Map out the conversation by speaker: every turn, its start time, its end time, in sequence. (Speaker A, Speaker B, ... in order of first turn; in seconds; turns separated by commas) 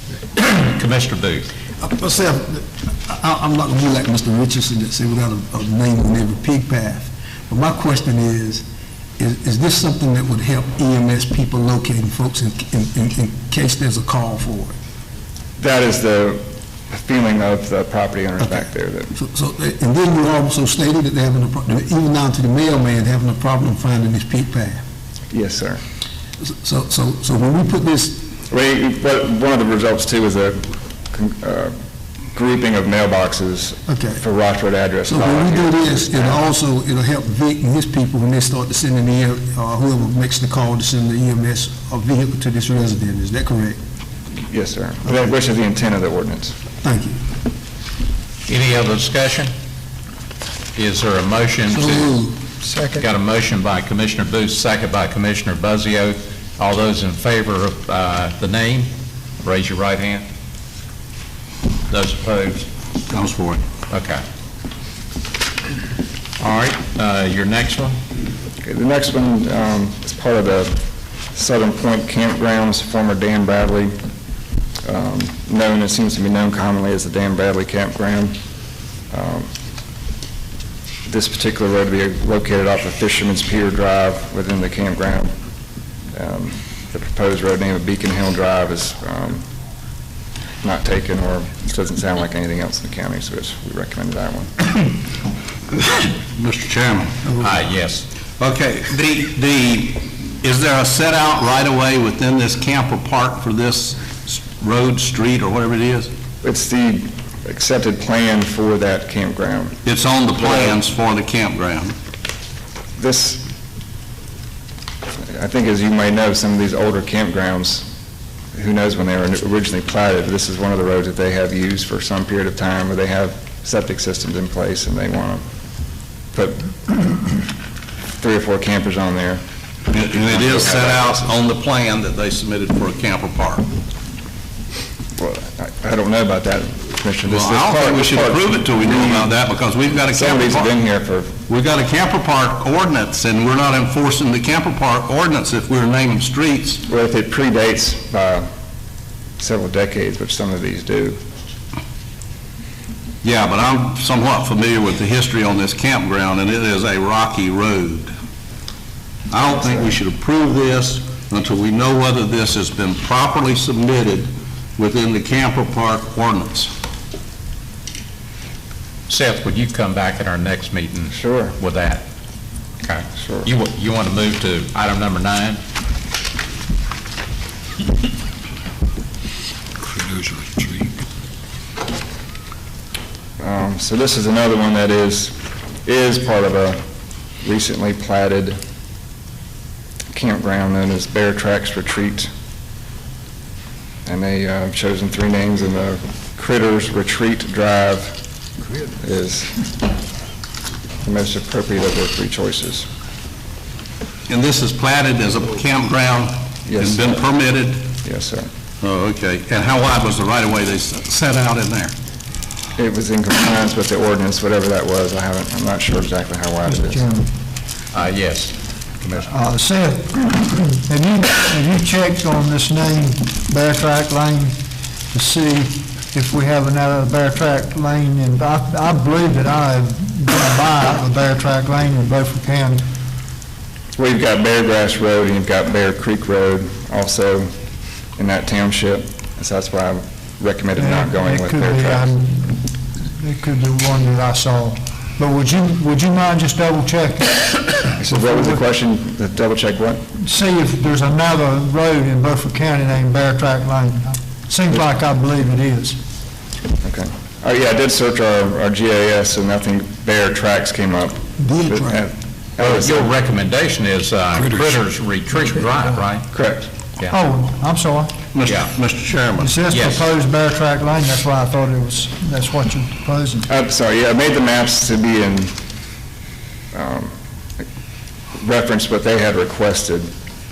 Speaker A: 0.3-1.5, Speaker B: 1.8-8.6, Speaker B: 9.2-14.7, Speaker C: 15.6-19.1, Speaker B: 19.1-24.8, Speaker C: 25.3-25.8, Speaker B: 26.4-28.3, Speaker C: 28.5-31.7, Speaker C: 32.3-36.4, Speaker B: 33.9-34.2, Speaker B: 35.0-43.8, Speaker C: 44.5-46.5, Speaker B: 46.8-47.1, Speaker A: 48.5-49.5, Speaker A: 50.8-52.1, Speaker B: 51.7-52.4, Speaker A: 52.9-58.9, Speaker A: 59.4-60.2, Speaker A: 61.9-62.7, Speaker D: 63.1-63.6, Speaker A: 63.9-64.2, Speaker A: 66.4-68.0, Speaker C: 68.6-70.8, Speaker C: 71.3-73.9, Speaker C: 74.8-78.4, Speaker C: 79.1-79.5, Speaker C: 81.0-85.3, Speaker C: 86.1-89.4, Speaker C: 90.6-94.7, Speaker D: 96.0-97.2, Speaker A: 97.4-98.0, Speaker D: 98.4-106.1, Speaker C: 106.4-109.8, Speaker D: 109.8-111.9, Speaker C: 110.4-110.8, Speaker C: 113.0-113.4, Speaker C: 115.3-117.8, Speaker C: 118.5-125.4, Speaker C: 126.3-127.4, Speaker C: 128.2-129.4, Speaker D: 129.9-133.6, Speaker C: 129.9-131.3, Speaker C: 135.2-139.3, Speaker D: 137.2-140.7, Speaker C: 140.1-141.4, Speaker D: 141.5-146.8, Speaker C: 146.8-148.4, Speaker C: 149.4-151.2, Speaker D: 153.2-158.1, Speaker D: 159.3-166.7, Speaker A: 169.1-172.0, Speaker C: 171.1-171.6, Speaker A: 172.8-175.6, Speaker C: 173.2-173.5, Speaker C: 183.4-186.8, Speaker C: 187.4-188.6, Speaker C: 190.1-192.3, Speaker C: 194.1-198.2, Speaker C: 198.9-199.5, Speaker C: 201.0-202.9, Speaker D: 204.3-207.8, Speaker C: 206.7-207.2, Speaker C: 208.0-208.5, Speaker D: 208.8-211.9, Speaker C: 212.7-217.1, Speaker E: 216.7-217.3, Speaker A: 217.9-219.3, Speaker E: 219.2-224.6, Speaker E: 225.1-232.9, Speaker C: 234.0-237.5, Speaker C: 238.2-242.1, Speaker E: 240.8-248.6, Speaker C: 248.0-250.0, Speaker E: 250.2-256.0, Speaker C: 256.8-263.1, Speaker B: 261.4-262.1, Speaker A: 262.6-266.3, Speaker C: 266.3-266.7, Speaker E: 267.1-268.1, Speaker D: 268.3-269.6, Speaker A: 268.4-268.7, Speaker E: 269.4-273.5, Speaker A: 269.7-270.1, Speaker C: 273.4-275.5, Speaker C: 276.7-277.1, Speaker C: 278.4-280.1